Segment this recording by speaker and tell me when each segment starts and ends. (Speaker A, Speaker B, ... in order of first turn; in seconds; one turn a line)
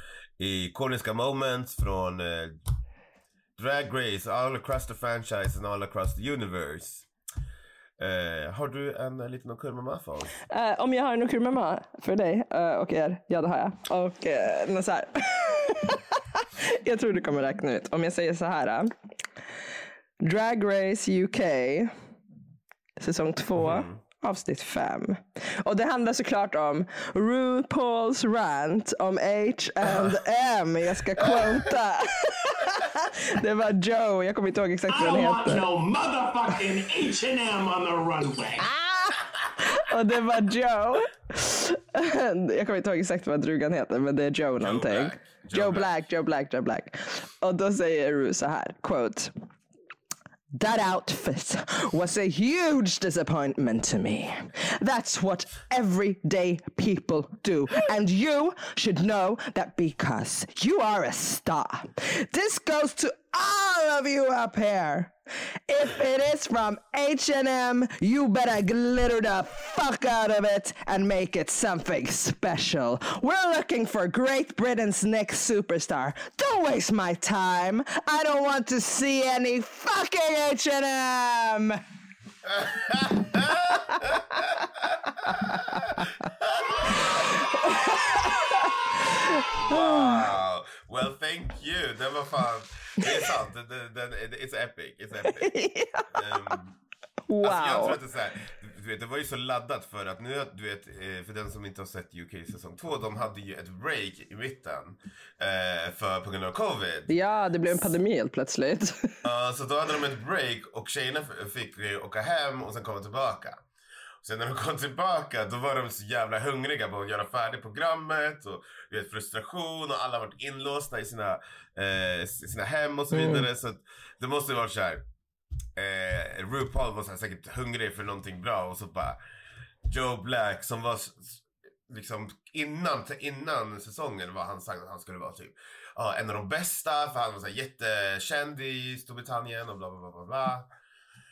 Speaker A: 0.4-2.6
Speaker A: 3.6-7.1
Speaker A: 8.0-10.3
Speaker B: 10.5-18.9
Speaker B: 20.2-21.9
Speaker B: 23.0-35.7
Speaker A: 23.6-24.0
Speaker C: 34.9-38.7
Speaker B: 38.6-49.3
Speaker A: 44.6-45.9
Speaker B: 50.5-65.1
Speaker B: 65.7-81.8
Speaker A: 82.4-87.4
Speaker B: 85.3-86.1
Speaker B: 87.0-90.2
Speaker A: 89.5-95.5
Speaker B: 95.2-96.6
Speaker A: 96.1-96.8
Speaker B: 97.3-98.0
Speaker A: 97.4-107.1
Speaker B: 107.1-109.2
Speaker A: 107.7-107.9
Speaker A: 109.2-113.6
Speaker A: 114.2-125.0
Speaker B: 123.1-123.5
Speaker A: 125.8-129.2
Speaker A: 129.9-140.7